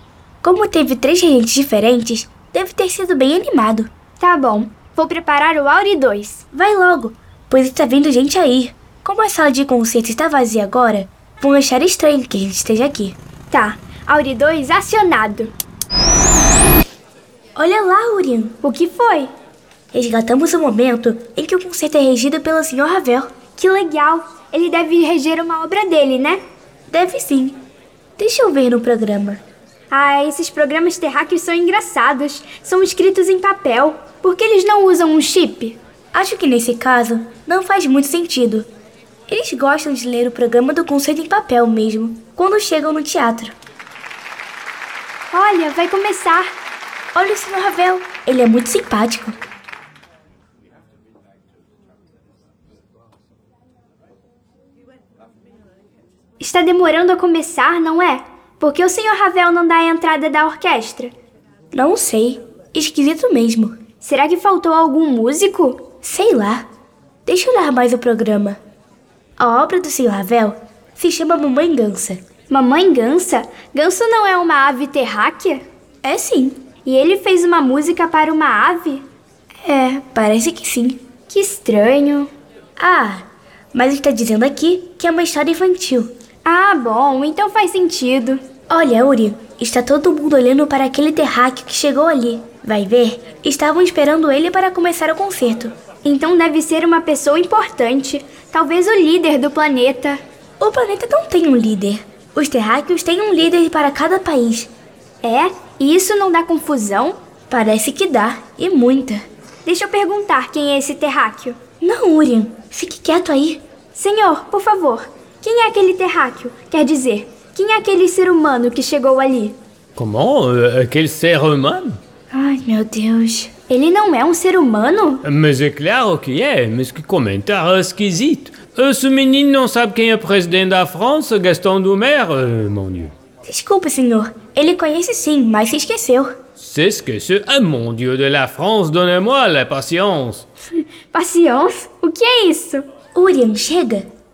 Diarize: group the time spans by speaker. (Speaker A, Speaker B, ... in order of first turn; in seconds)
Speaker A: 0.4-3.9, 6.5-13.2, 17.6-18.6, 19.9-23.3, 26.9-27.6, 28.2-29.4, 36.1-38.7, 39.3-43.6, 47.1-49.4, 61.7-63.8, 66.0-66.7, 67.3-68.6, 69.4-72.2, 76.0-76.6, 79.6-81.0, 82.8-86.1, 88.7-95.7, 100.6-104.7, 107.5-109.2, 111.8-113.6, 122.3-123.5, 133.4-136.4, 143.2-144.1
Speaker B: 4.2-6.5, 13.5-15.5, 18.6-19.3, 23.6-26.4, 29.9-35.8, 45.3-46.5, 56.4-61.1, 64.0-65.9, 72.5-75.6, 76.8-79.1, 81.3-82.3, 86.5-88.4, 96.0-100.2, 105.2-107.2, 109.7-111.6, 114.0-119.6, 123.7-125.2, 141.1-142.9
Speaker C: 120.0-122.0, 125.2-133.1, 136.6-140.5